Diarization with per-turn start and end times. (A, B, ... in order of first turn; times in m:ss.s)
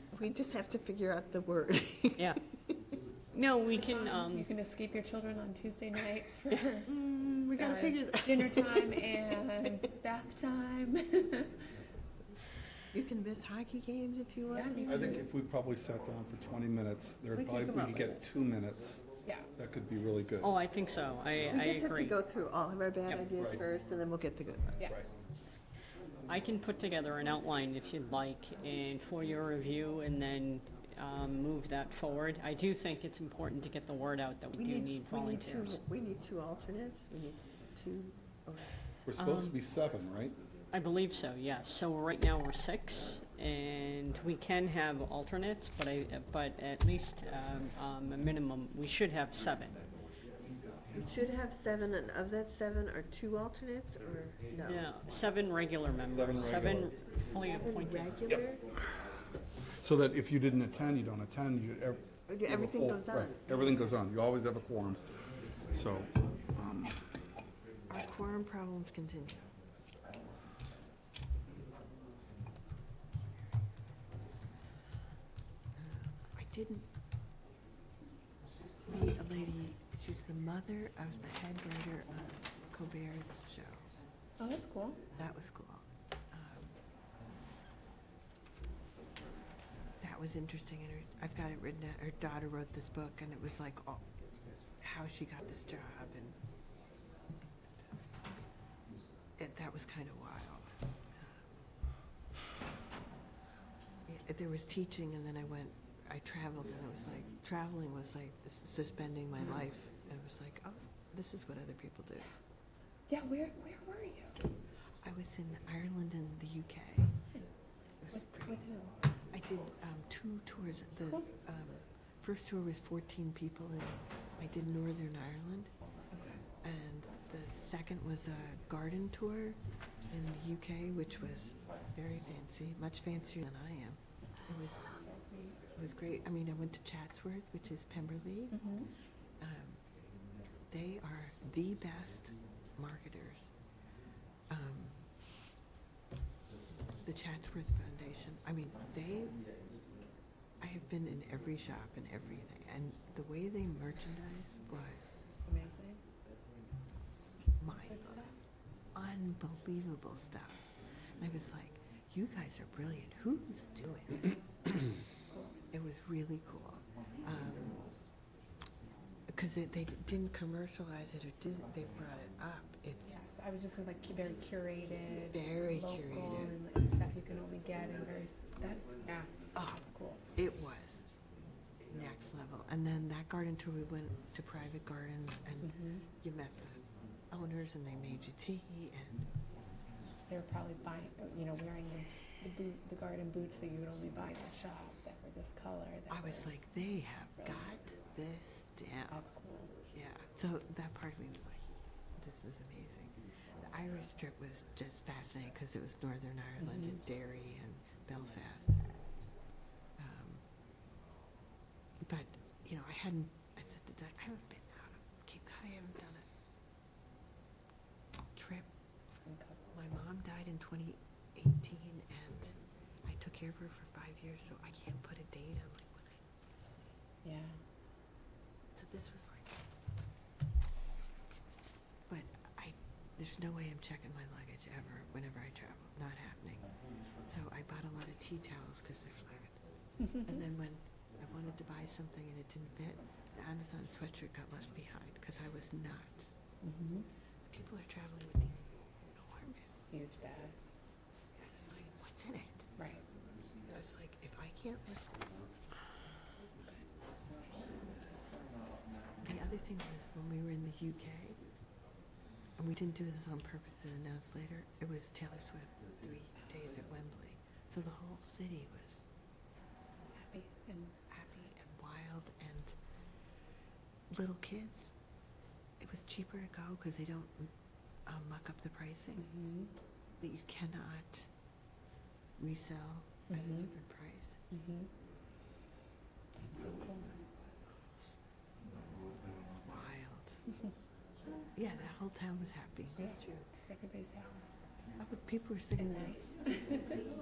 0:00.1-0:02.6 A
0:03.3-0:04.5 B
0:03.7-0:06.9 C
0:06.8-0:09.6 A
0:07.6-0:11.5 C
0:12.9-0:15.2 A
0:14.5-0:15.2 C
0:14.8-0:20.5 D
0:17.3-0:18.2 A
0:20.4-0:22.2 B
0:21.5-0:24.9 A
0:23.4-0:23.6 D
0:26.3-0:35.8 B
0:34.5-0:39.6 A
0:39.0-0:40.3 D
0:40.7-0:49.8 B
0:50.9-0:54.9 A
0:54.6-0:58.1 B
0:56.1-0:56.9 D
0:57.3-0:58.7 A
0:58.3-0:59.0 D
0:59.8-1:05.0 D
1:02.3-1:04.0 A
1:05.7-1:07.0 D
1:07.9-1:09.5 A
1:15.8-1:16.9 A
1:18.9-1:23.9 A
1:24.4-1:25.0 C
1:25.2-1:26.7 A
1:30.0-1:34.0 A
1:34.8-1:36.4 A
1:39.4-1:41.6 A
1:44.1-1:52.3 A
1:53.1-1:54.3 C
1:55.0-1:57.1 A
1:58.0-1:58.7 A
1:58.1-1:58.9 C
1:59.3-2:05.7 A
2:06.1-2:06.4 C
2:06.6-2:14.9 A
2:14.9-2:15.6 C
2:15.8-2:18.6 A
2:18.5-2:18.9 C
2:19.4-2:20.0 A
2:20.7-2:23.5 A
2:24.5-2:25.0 A
2:27.0-2:29.4 A
2:30.6-2:35.2 A
2:35.4-2:36.0 C
2:37.6-2:38.2 A
2:37.9-2:38.3 C
2:38.9-2:40.6 A
2:41.2-2:44.4 A
2:45.3-2:45.6 C
2:45.7-2:47.8 A
2:49.3-2:53.1 A
2:53.1-3:00.2 C
2:55.3-2:56.6 A
2:59.6-2:59.8 A
3:00.4-3:01.0 A
3:01.9-3:09.3 A
3:05.6-3:06.0 C
3:10.3-3:16.6 C
3:16.1-3:19.3 A
3:19.1-3:19.7 C
3:19.9-3:28.8 A
3:26.6-3:27.0 C
3:30.0-3:30.4 A
3:32.0-3:36.2 A
3:38.3-3:38.7 A
3:39.2-3:39.6 C
3:39.7-3:46.2 A
3:47.2-3:47.6 C
3:48.7-3:49.5 A
3:52.1-4:06.3 A
4:06.6-4:07.1 C
4:07.4-4:09.8 A
4:09.9-4:10.5 C
4:11.4-4:12.7 A
4:13.7-4:15.3 A
4:19.2-4:21.4 A
4:22.6-4:29.0 A
4:30.1-4:31.5 C
4:31.5-4:32.8 A
4:34.1-4:34.9 A
4:35.8-4:37.5 A
4:38.0-4:39.3 A
4:39.2-4:39.7 C
4:40.2-4:41.3 A
4:42.4-4:44.4 A
4:43.3-4:43.7 C
4:44.5-4:44.9 C
4:46.5-4:47.2 C
4:49.6-4:50.4 A
4:51.6-4:53.5 A
4:53.0-4:54.4 C
4:55.0-4:56.2 A
4:55.8-4:56.9 C